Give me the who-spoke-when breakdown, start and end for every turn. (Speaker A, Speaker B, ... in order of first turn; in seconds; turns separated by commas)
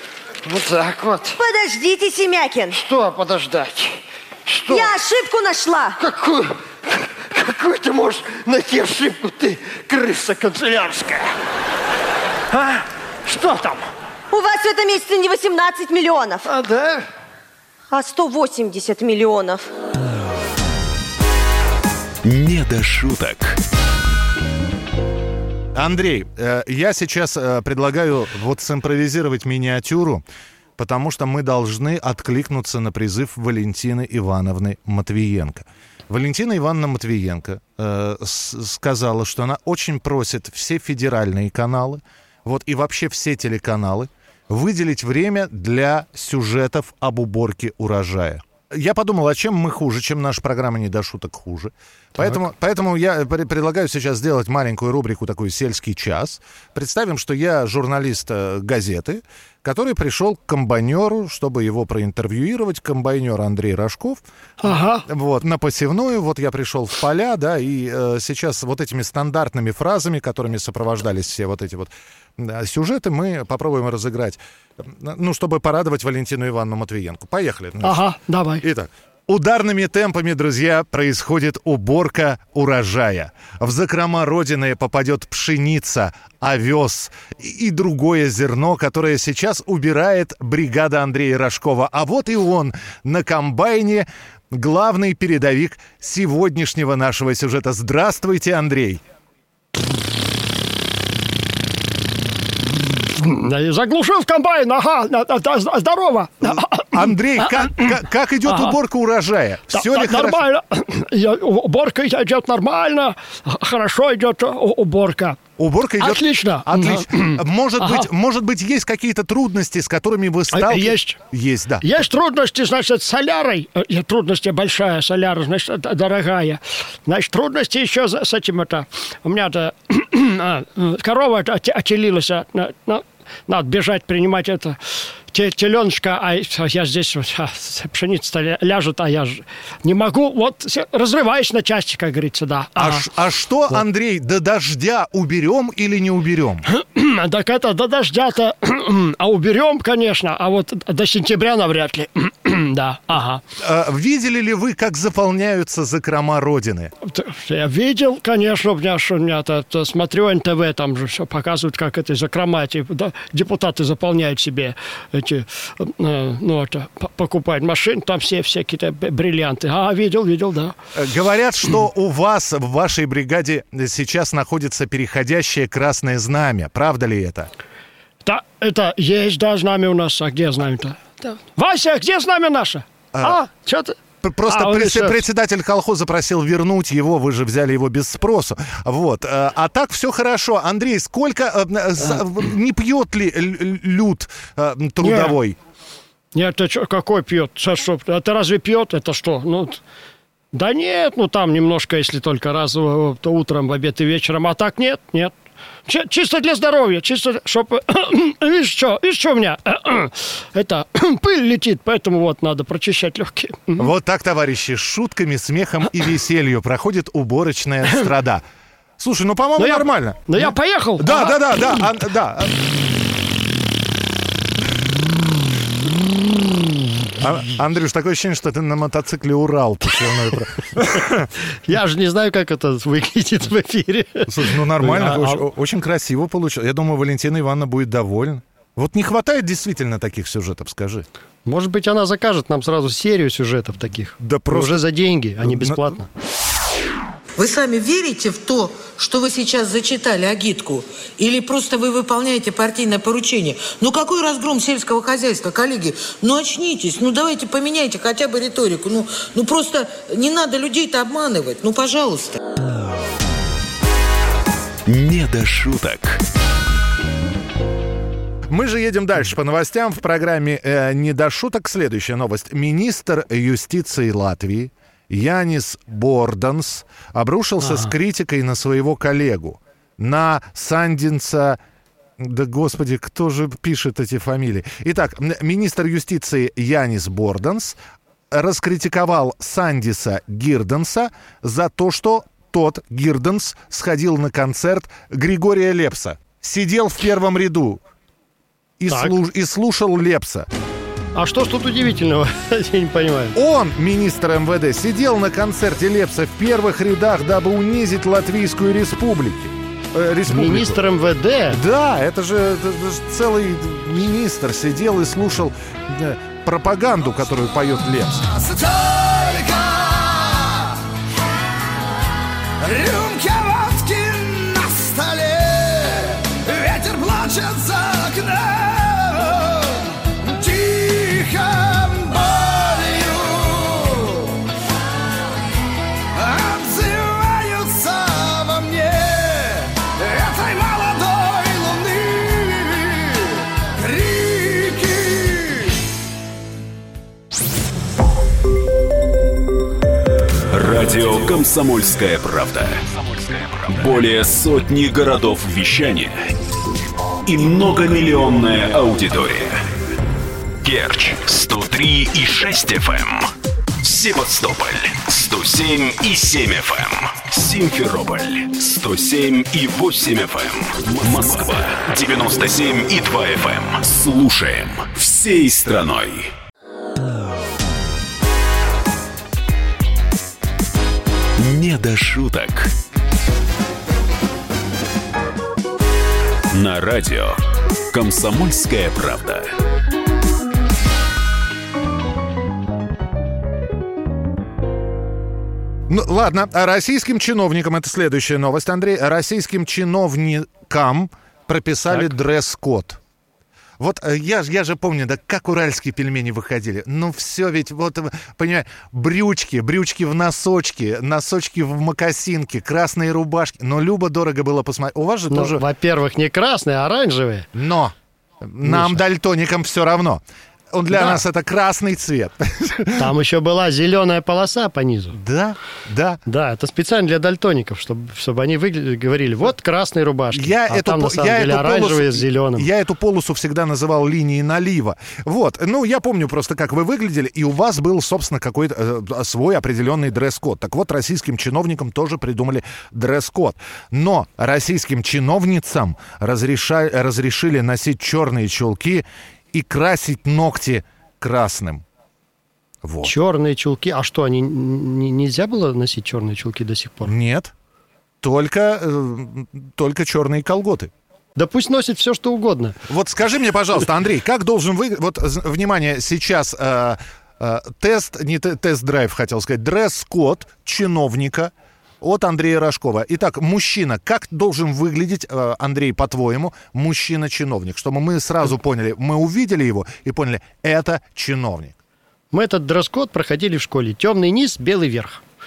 Speaker A: 0.4-1.4, Speaker B: 1.4-2.8, Speaker A: 2.7-5.0, Speaker B: 4.7-6.0, Speaker A: 6.0-11.3, Speaker A: 12.5-13.9, Speaker B: 14.3-16.5, Speaker A: 16.4-17.1, Speaker B: 17.9-19.7, Speaker C: 22.2-23.6, Speaker D: 25.8-30.2, Speaker D: 30.8-78.1, Speaker E: 52.1-52.5, Speaker E: 64.6-65.0, Speaker E: 77.8-78.7, Speaker D: 78.6-99.0, Speaker E: 103.2-107.9, Speaker D: 106.4-110.4, Speaker E: 108.4-108.8, Speaker E: 109.7-115.4, Speaker D: 115.6-122.0, Speaker E: 116.0-118.1, Speaker E: 120.5-121.2, Speaker E: 121.8-134.8, Speaker E: 135.3-143.1, Speaker D: 142.8-146.7, Speaker E: 146.7-153.4, Speaker D: 153.6-156.9, Speaker E: 157.1-170.7, Speaker D: 170.9-177.5, Speaker E: 178.2-184.0, Speaker D: 183.1-183.4, Speaker D: 184.2-195.6, Speaker E: 184.5-185.2, Speaker E: 195.0-195.3, Speaker E: 196.3-199.8, Speaker E: 200.5-205.3, Speaker E: 205.9-213.9, Speaker D: 213.8-218.4, Speaker D: 219.0-222.7, Speaker E: 219.6-221.8, Speaker D: 225.8-226.3, Speaker D: 227.2-231.3, Speaker E: 231.7-235.4, Speaker D: 234.3-241.1, Speaker E: 241.4-246.1, Speaker D: 244.2-244.8, Speaker D: 245.4-245.9, Speaker F: 247.4-262.4, Speaker C: 264.9-266.2, Speaker D: 268.5-281.6, Speaker E: 277.6-277.9, Speaker D: 282.2-287.8, Speaker D: 288.3-297.8, Speaker D: 298.8-300.5, Speaker E: 298.9-299.2, Speaker E: 301.1-303.4, Speaker D: 303.4-310.8, Speaker E: 310.3-311.6, Speaker D: 311.5-318.3, Speaker G: 322.7-325.2, Speaker G: 325.8-329.4, Speaker G: 330.4-334.1, Speaker G: 336.2-342.9, Speaker G: 343.9-344.9, Speaker C: 350.5-356.3, Speaker C: 357.3-359.6, Speaker C: 360.6-363.3, Speaker C: 363.8-376.3, Speaker C: 381.4-382.7, Speaker C: 386.5-387.4, Speaker C: 387.9-389.5, Speaker D: 395.9-403.0, Speaker D: 403.8-415.6, Speaker E: 415.3-417.5, Speaker D: 417.5-423.1, Speaker E: 418.6-419.0, Speaker E: 420.9-421.2, Speaker E: 423.0-425.2, Speaker D: 425.1-426.2, Speaker E: 426.3-432.7, Speaker D: 430.3-451.8, Speaker D: 452.8-453.1, Speaker E: 453.0-457.1, Speaker D: 457.1-457.5, Speaker D: 458.2-460.9, Speaker E: 461.4-462.8, Speaker D: 462.9-481.8, Speaker E: 482.3-485.2